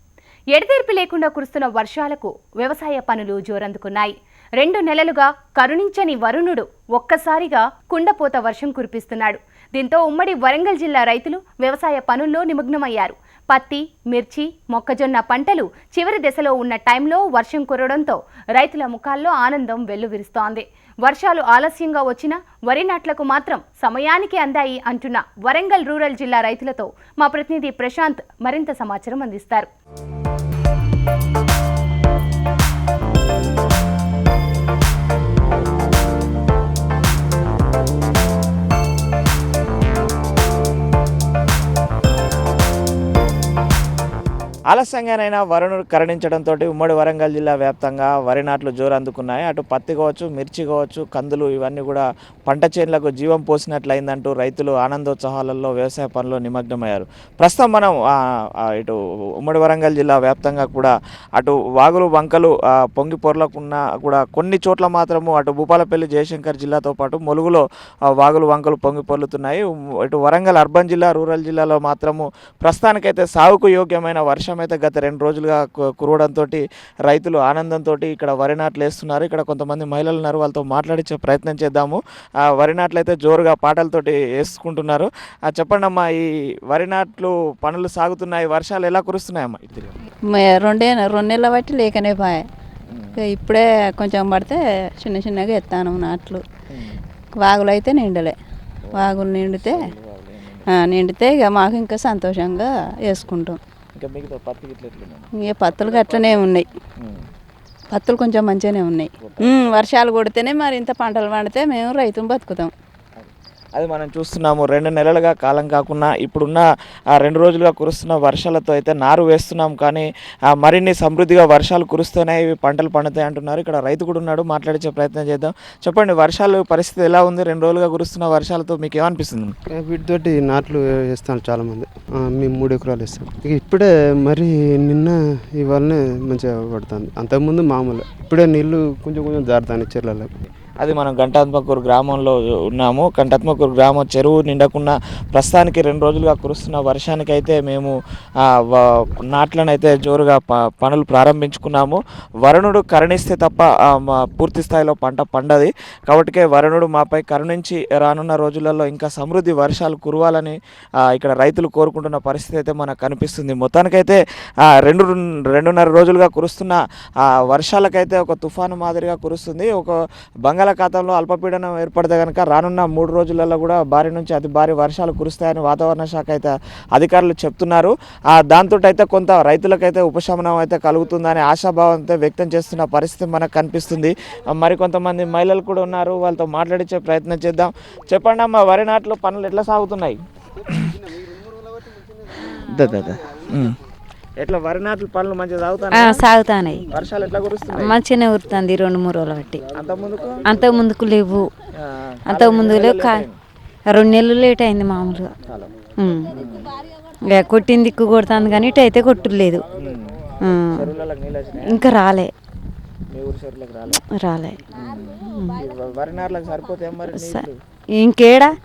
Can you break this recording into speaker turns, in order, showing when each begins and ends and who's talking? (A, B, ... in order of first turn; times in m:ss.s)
0:00.5-0:29.7 A
0:44.7-0:58.1 B
0:58.8-1:30.0 B
1:30.3-1:32.4 C
1:32.9-1:33.2 B
1:33.2-1:36.4 C
1:36.7-1:37.0 B
1:37.4-1:38.4 C
1:38.8-1:40.7 B
1:39.0-1:39.8 C
1:40.8-1:43.6 C
1:44.0-1:45.3 B
1:45.4-1:46.7 C
1:47.9-1:52.7 C
1:49.2-1:49.7 B
1:53.2-2:09.5 B
2:09.7-2:20.3 D
2:20.8-3:11.0 B
3:12.6-3:13.8 B
3:14.4-3:16.2 B
3:15.9-3:16.9 E
3:16.9-3:18.0 B
3:17.7-3:19.6 E
3:19.7-3:20.5 B
3:20.4-3:21.5 E
3:21.8-3:23.4 B
3:22.3-3:23.2 E
3:23.9-3:25.3 E
3:25.5-3:25.8 B
3:25.9-3:26.4 E
3:26.4-3:26.7 B
3:27.3-3:29.6 E
3:29.8-3:30.2 B
3:30.4-3:30.9 E
3:30.7-3:31.9 B
3:31.6-3:32.3 E
3:33.1-3:34.0 B
3:34.0-3:34.6 E
3:34.7-3:37.6 B
3:35.2-3:35.6 E
3:37.1-3:37.5 E
3:38.0-3:38.6 E